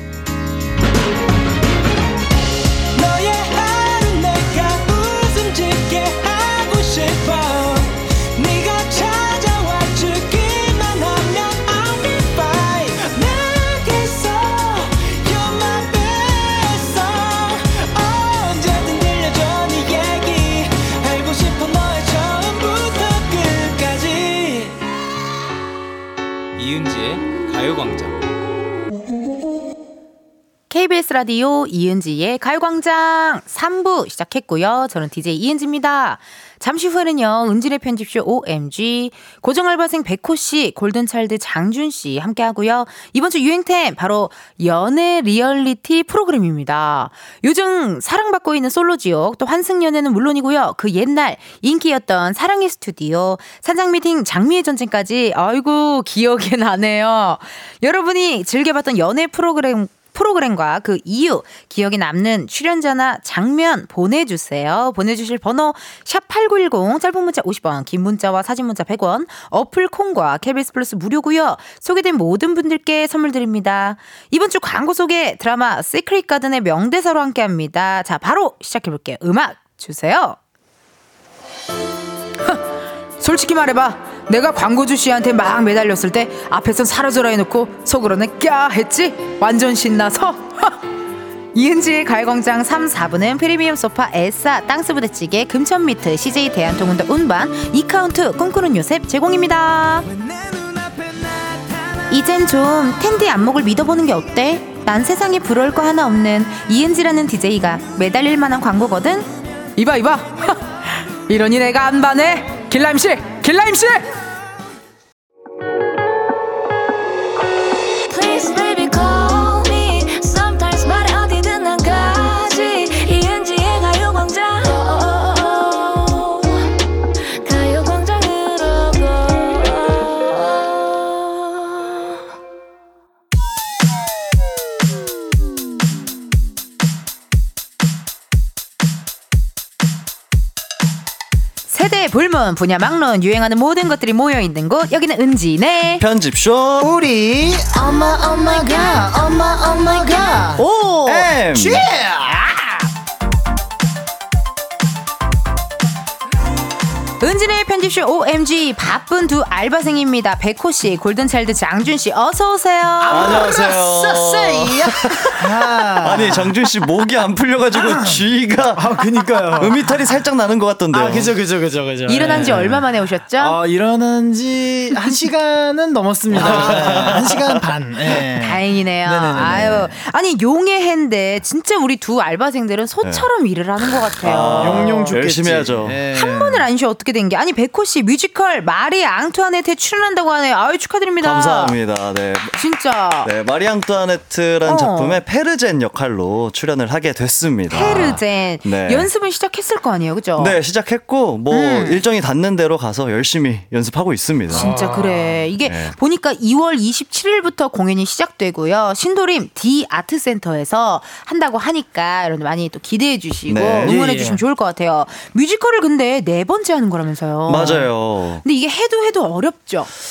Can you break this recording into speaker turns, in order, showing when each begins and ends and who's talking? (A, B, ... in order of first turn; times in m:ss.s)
0:02.9-0:24.8 A
0:26.6-0:28.1 A
0:30.7-1:20.4 B
1:22.4-1:22.6 B
1:23.2-1:30.8 B
1:31.5-1:40.1 B
1:40.1-1:42.0 A
1:42.1-1:54.1 B
1:58.1-2:06.6 C
2:07.4-2:10.4 C
2:21.7-2:26.0 B
2:26.0-2:26.9 D
2:26.8-2:30.6 E
2:28.2-2:31.3 B
2:31.0-2:31.8 D
2:31.4-2:32.5 E
2:32.3-2:32.7 B
2:37.2-2:43.6 B
2:43.0-2:46.7 E
2:43.1-2:45.4 D
2:46.0-2:48.9 D
2:47.7-2:50.1 E
2:49.6-2:51.3 D
2:50.9-2:59.9 E
2:52.0-2:53.6 B
2:56.3-2:57.6 D
2:56.4-2:57.1 B
2:58.3-3:05.2 B
2:59.4-2:59.9 D
3:03.0-3:03.3 D
3:04.0-3:06.0 D
3:04.3-3:06.6 E
3:06.1-3:11.8 B
3:11.2-3:12.6 D
3:12.5-3:13.3 B
3:13.2-3:19.1 D
3:14.6-3:15.2 B
3:17.7-3:20.6 B
3:20.4-3:24.8 D
3:21.5-3:22.0 B
3:24.5-3:25.4 E
3:24.5-3:39.9 B
3:25.6-3:25.9 D
3:33.5-3:34.0 D
3:33.8-3:34.4 E
3:37.4-3:38.4 D